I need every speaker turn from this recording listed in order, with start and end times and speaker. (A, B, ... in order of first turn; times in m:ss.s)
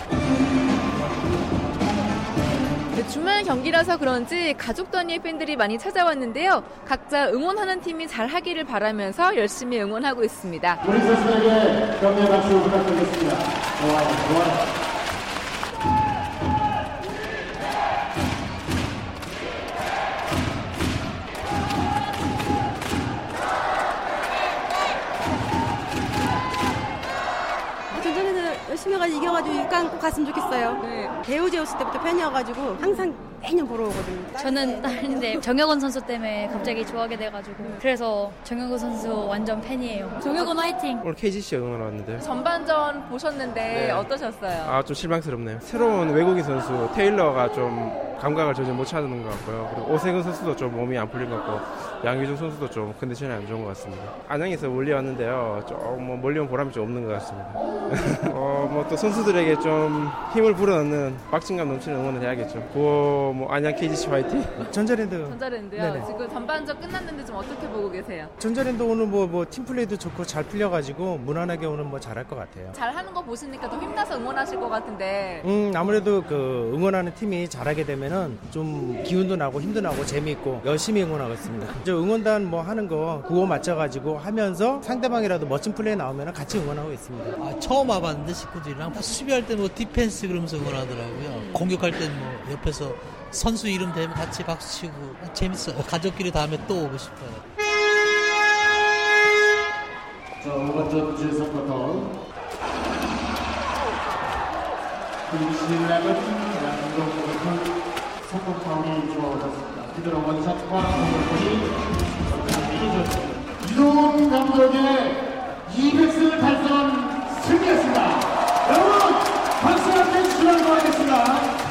0:02.9-0:10.8 A
0:10.8-0:14.6 B
0:27.9-0:35.4 C
0:30.8-0:31.1 A
0:34.4-0:41.0 D
0:41.0-0:42.3 E
0:42.2-0:44.8 A
0:43.7-1:04.7 E
1:04.7-1:06.1 F
1:05.3-1:08.3 A
1:08.4-1:12.7 F
1:12.7-1:15.5 A
1:15.4-1:27.4 F
1:27.4-1:37.4 G
1:40.4-1:42.1 B
1:45.3-1:47.7 B
1:48.2-2:01.6 B